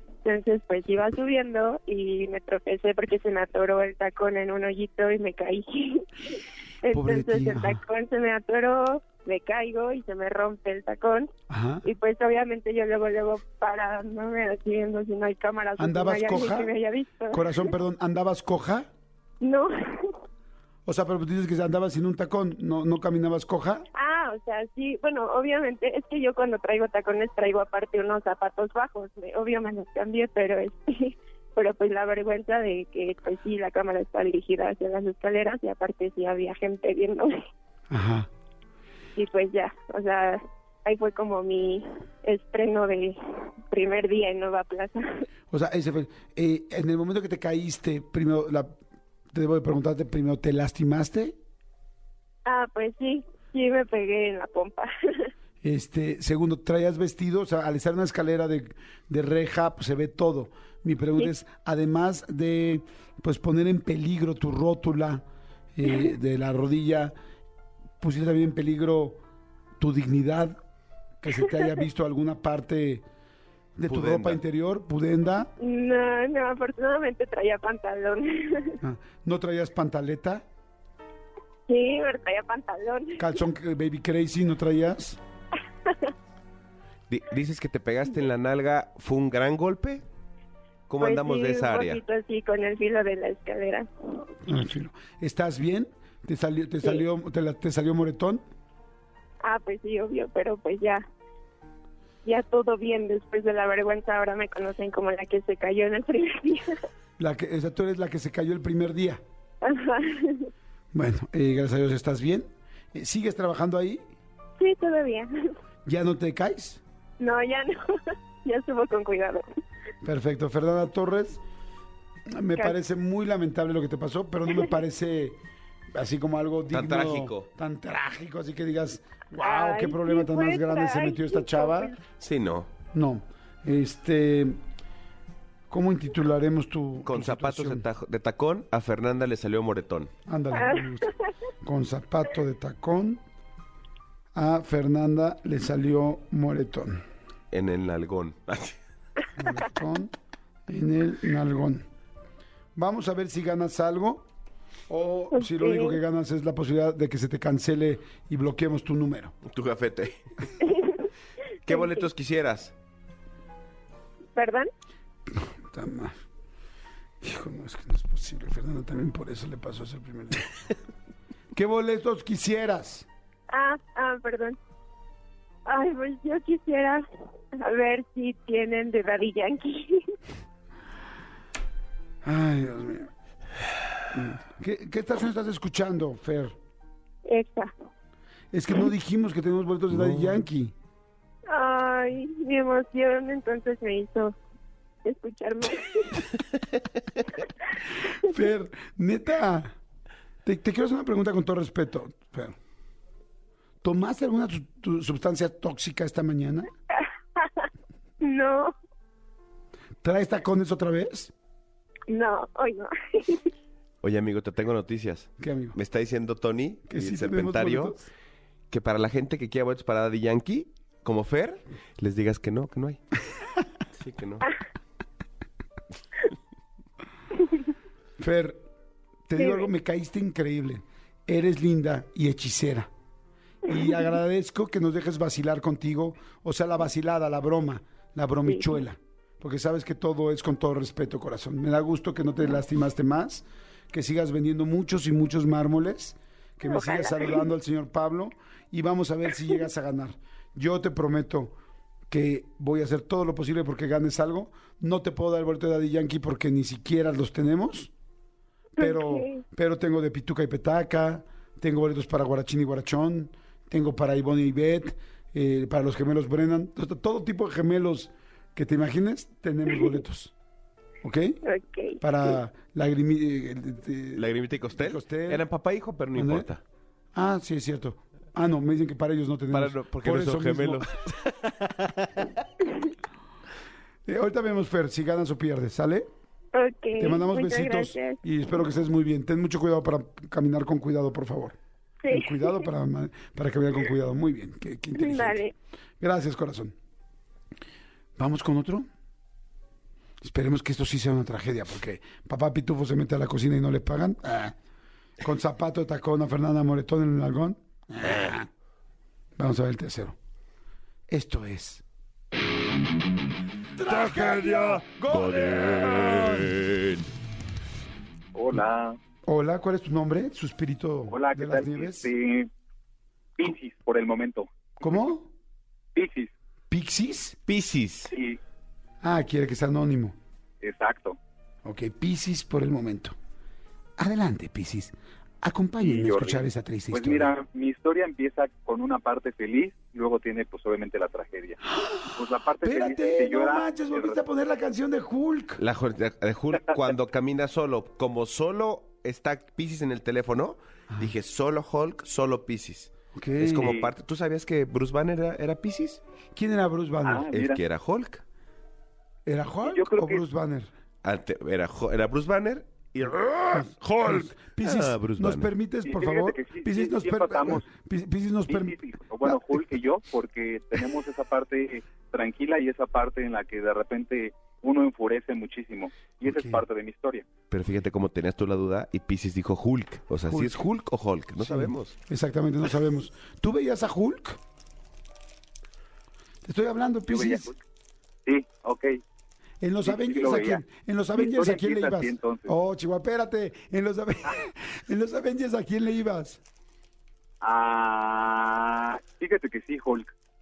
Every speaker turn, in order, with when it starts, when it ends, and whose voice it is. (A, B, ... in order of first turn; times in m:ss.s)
0:00.2-0:11.3 A
0:06.9-0:07.8 B
0:11.5-0:11.9 B
0:11.8-0:17.7 A
0:15.8-0:16.8 B
0:17.3-0:18.9 B
0:19.4-0:20.2 A
0:20.9-0:23.9 B
0:23.9-0:37.4 A
0:37.9-0:38.3 B
0:39.2-0:43.2 A
0:43.7-0:45.2 A
0:45.5-0:48.8 B
0:49.3-0:51.4 B
0:52.5-0:55.3 A
0:55.6-1:05.2 B
1:05.8-1:07.1 B
1:08.0-1:09.2 B
1:09.8-1:10.6 B
1:11.2-1:13.0 B
1:13.8-1:15.5 B
1:13.9-1:14.4 C
1:15.6-1:18.8 A
1:18.8-1:20.4 B
1:21.7-1:23.4 A
1:23.2-1:25.2 B
1:25.9-1:26.1 A
1:27.1-1:30.0 C
1:30.9-1:32.0 C
1:31.0-1:34.2 A
1:34.5-1:38.4 B
1:39.4-1:41.0 A
1:42.2-1:46.8 A
1:47.2-1:49.2 B
1:49.6-1:50.5 A
1:50.9-1:54.1 B
1:54.6-1:55.5 A
1:55.8-1:56.8 B
1:57.2-1:59.5 A
2:00.0-2:01.4 B
2:02.3-2:05.4 B
2:05.9-2:11.9 B
2:06.7-2:07.5 C
2:09.4-2:12.0 A
2:12.1-2:12.7 C
2:12.9-2:14.6 B
2:15.7-2:17.8 B
2:17.0-2:20.1 C
2:20.3-2:23.2 B
2:20.5-2:21.1 A
2:24.3-2:27.0 B
2:27.5-2:28.8 C
2:29.4-2:30.1 B
2:30.7-2:31.8 B
2:32.8-2:34.3 B
2:34.9-2:39.4 B
2:35.3-2:36.0 A
2:39.5-2:40.2 C
2:40.6-2:41.1 A
2:41.7-2:42.1 A
2:41.7-2:42.7 C
2:44.4-2:44.7 A
2:45.3-2:46.2 B
2:47.2-2:50.5 B
2:51.5-2:53.1 B
2:53.5-2:54.6 A
2:55.7-2:57.0 A
2:57.6-3:00.1 A
3:02.2-3:03.1 B
3:04.1-3:06.6 B
3:07.2-3:07.7 A
3:08.5-3:10.7 B
3:09.9-3:10.4 C
3:11.5-3:14.4 A
3:15.0-3:16.2 A
3:18.2-3:19.7 B
3:20.4-3:22.6 B
3:23.8-3:26.7 B
3:27.0-3:27.7 A
3:28.2-3:28.7 A
3:30.0-3:31.3 B
3:32.1-3:33.5 A
3:34.0-3:38.0 C
3:35.4-3:35.8 B
3:36.9-3:38.1 B
3:38.7-3:43.0 C
3:43.9-3:44.5 C
3:48.2-3:48.6 B
3:49.3-3:52.9 B
3:49.4-3:49.7 A
3:53.6-4:11.6 B
3:58.5-3:58.8 A
4:06.7-4:07.5 A
4:12.1-4:17.9 B
4:18.8-4:19.4 A
4:18.8-4:30.3 B
4:31.0-4:31.4 B
4:31.4-4:32.0 A
4:32.0-4:35.4 B
4:34.2-4:36.6 C
4:36.2-4:36.5 B
4:37.1-4:40.9 B
4:39.5-4:42.4 C
4:44.1-4:46.1 B
4:46.5-4:48.2 A
4:47.0-4:51.6 B
4:52.0-4:52.6 A
4:52.1-4:55.5 B
4:55.0-4:55.5 A
4:56.0-4:56.8 B
4:58.2-4:58.9 B
5:00.2-5:04.6 B
5:05.2-5:08.5 B
5:09.4-5:10.2 B
5:11.1-5:11.8 B
5:13.8-5:16.6 B
5:15.1-5:17.1 C
5:18.3-5:19.0 D
5:19.3-5:22.1 B
5:21.1-5:22.5 D
5:23.4-5:25.0 D
5:24.8-5:25.3 B
5:26.0-5:26.3 D
5:26.7-5:27.4 B
5:27.5-5:28.1 C
5:28.1-5:28.4 D
5:29.0-5:30.2 B
5:30.6-5:31.2 D
5:31.6-5:33.2 B
5:34.0-5:37.3 B
5:35.8-5:41.6 D
5:41.7-5:45.6 B
5:42.1-5:44.2 D
5:45.6-5:56.0 C
5:50.9-5:51.1 B
5:53.1-5:53.8 B
5:53.6-5:53.9 D
5:56.4-5:57.3 B
5:57.0-5:57.6 D
5:57.3-5:58.2 C
5:59.3-6:00.7 B
5:59.6-6:00.2 D
6:01.0-6:05.5 C
6:03.5-6:09.7 B
6:05.8-6:07.7 D
6:08.5-6:17.3 D
6:16.2-6:16.6 B
6:17.5-6:22.0 C
6:20.3-6:20.7 B
6:21.4-6:24.4 B
6:26.4-6:27.5 B
6:27.1-6:27.6 D
6:28.3-6:29.0 D
6:29.6-6:36.4 B
6:29.8-6:30.6 D
6:31.2-6:32.5 D
6:37.4-6:40.1 D